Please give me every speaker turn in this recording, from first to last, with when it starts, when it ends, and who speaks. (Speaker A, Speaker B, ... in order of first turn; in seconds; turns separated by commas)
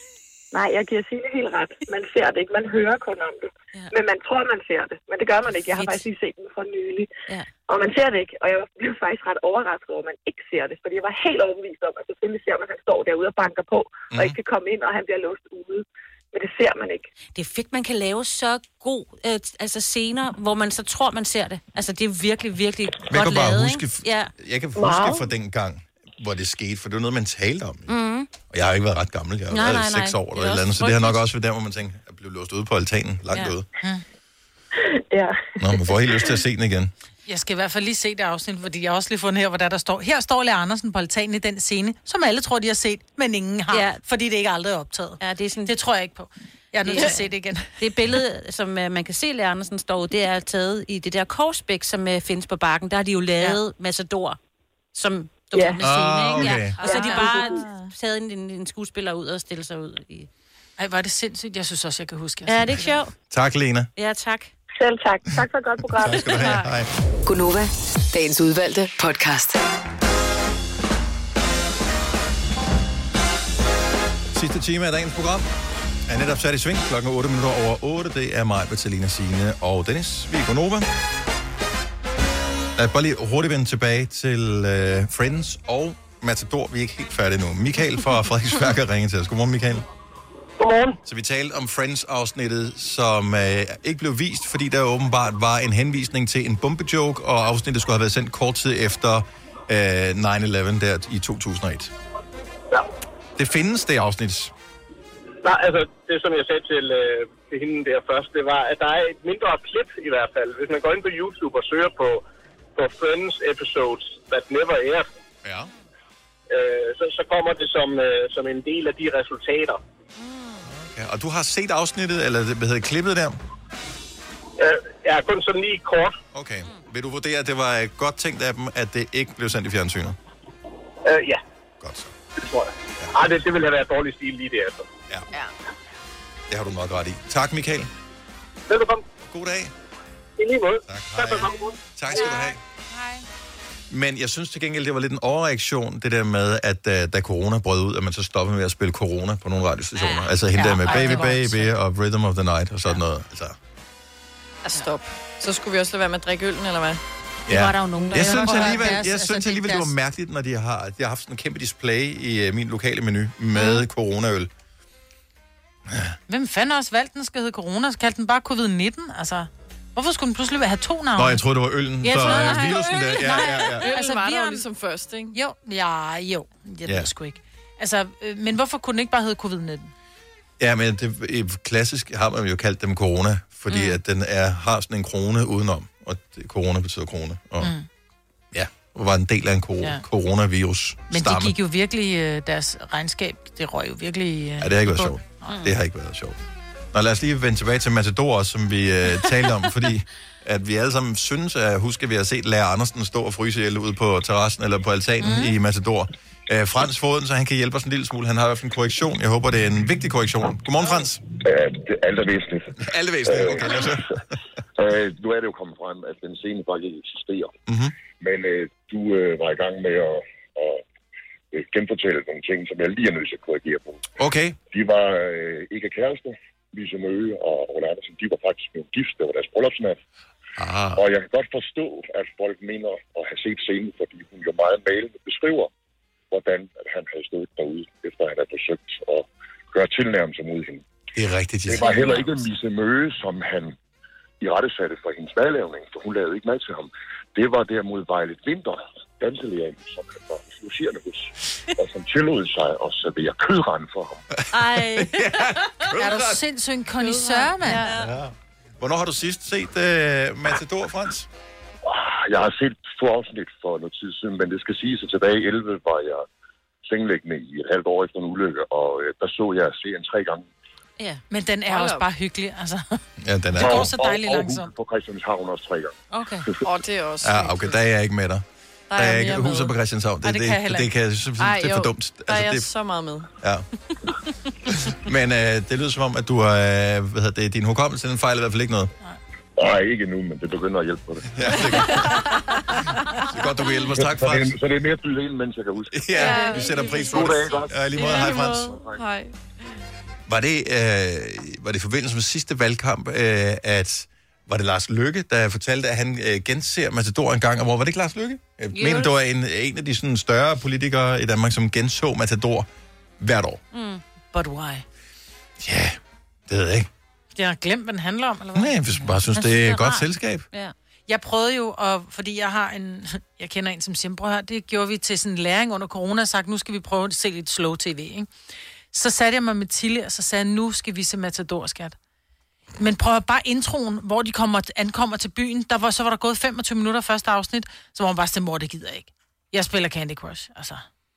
Speaker A: 0.5-7.1, Speaker B: 5.8-6.0, Speaker A: 7.7-17.1, Speaker C: 14.1-14.4, Speaker B: 17.3-24.3, Speaker C: 23.1-27.9, Speaker A: 24.8-25.3, Speaker B: 27.9-28.3, Speaker C: 28.5-33.7, Speaker B: 29.5-31.2, Speaker A: 34.8-36.3, Speaker C: 35.6-36.9, Speaker D: 37.3-47.7, Speaker B: 43.7-44.0, Speaker B: 45.2-45.7, Speaker B: 46.8-47.2, Speaker B: 47.8-54.4, Speaker B: 54.9-60.3, Speaker A: 55.5-55.8, Speaker C: 55.8-56.8, Speaker A: 56.8-57.6, Speaker D: 56.8-57.9, Speaker D: 60.8-62.9, Speaker B: 62.5-63.1, Speaker C: 63.3-63.9, Speaker B: 64.0-64.5, Speaker A: 64.8-66.6, Speaker C: 65.9-66.9, Speaker E: 67.2-69.6, Speaker C: 74.3-75.5, Speaker C: 76.1-80.9, Speaker C: 82.8-89.8, Speaker F: 90.6-91.0, Speaker C: 91.0-101.9, Speaker C: 103.3-104.5, Speaker F: 105.4-112.2, Speaker F: 112.8-115.1, Speaker C: 115.4-115.7, Speaker F: 116.5-119.8, Speaker B: 120.2-120.6, Speaker C: 120.6-123.4, Speaker F: 124.6-126.2, Speaker C: 126.3-130.2, Speaker F: 131.0-131.4, Speaker C: 131.8-132.1, Speaker F: 132.3-134.9, Speaker C: 136.5-137.9, Speaker F: 138.7-139.0, Speaker C: 139.2-139.7, Speaker F: 140.4-141.8, Speaker C: 140.9-142.6, Speaker D: 142.9-143.2, Speaker C: 143.9-153.6, Speaker B: 150.0-151.5, Speaker D: 150.6-151.7, Speaker G: 154.6-157.0, Speaker C: 157.5-164.5, Speaker B: 157.5-158.8, Speaker D: 157.5-159.9, Speaker G: 158.1-158.7, Speaker B: 163.6-163.8, Speaker C: 165.9-166.2, Speaker D: 166.3-171.4, Speaker C: 171.2-173.9, Speaker B: 172.1-174.0, Speaker D: 172.1-174.6, Speaker G: 172.2-175.3, Speaker D: 175.3-179.9, Speaker C: 180.6-187.7, Speaker B: 183.7-184.0, Speaker D: 187.6-187.9, Speaker C: 188.5-191.5, Speaker D: 191.1-195.6, Speaker C: 194.6-196.4, Speaker B: 195.5-195.7, Speaker C: 196.9-211.2, Speaker D: 205.2-205.5, Speaker H: 211.3-214.0, Speaker C: 212.8-214.4, Speaker H: 214.8-217.6, Speaker C: 217.7-217.9, Speaker H: 218.2-220.8, Speaker H: 221.5-224.0, Speaker C: 224.2-224.6, Speaker H: 224.7-230.0, Speaker C: 230.6-231.0, Speaker H: 230.9-235.7, Speaker H: 236.3-240.8, Speaker C: 241.1-242.3, Speaker H: 241.7-243.8, Speaker H: 244.4-254.2, Speaker C: 254.5-256.4, Speaker B: 254.5-255.6, Speaker D: 256.0-257.9, Speaker G: 257.0-257.5, Speaker B: 257.6-258.1, Speaker C: 257.9-261.3, Speaker H: 261.8-266.2, Speaker H: 266.8-270.5, Speaker D: 271.3-273.0, Speaker G: 271.7-272.0, Speaker C: 273.2-273.9, Speaker D: 273.6-274.7, Speaker H: 273.6-276.6, Speaker B: 276.1-276.5, Speaker G: 276.6-277.8, Speaker C: 277.2-282.7, Speaker G: 278.9-279.7, Speaker D: 280.2-280.9, Speaker G: 281.4-283.3, Speaker C: 283.4-283.6, Speaker C: 284.7-288.9, Speaker H: 289.6-291.6, Speaker C: 291.3-292.2, Speaker G: 291.6-292.8, Speaker C: 293.2-294.6, Speaker H: 294.0-296.4, Speaker C: 295.9-298.8, Speaker G: 296.1-299.3, Speaker H: 297.1-298.2, Speaker H: 298.8-299.0, Speaker C: 300.3-312.7, Speaker B: 308.7-309.1, Speaker C: 313.2-313.6, Speaker B: 313.7-314.0, Speaker D: 314.3-314.8, Speaker C: 315.6-316.9, Speaker D: 317.4-318.8, Speaker C: 318.5-320.4, Speaker B: 319.3-320.7, Speaker D: 321.1-328.3, Speaker D: 328.9-331.9, Speaker D: 332.8-340.8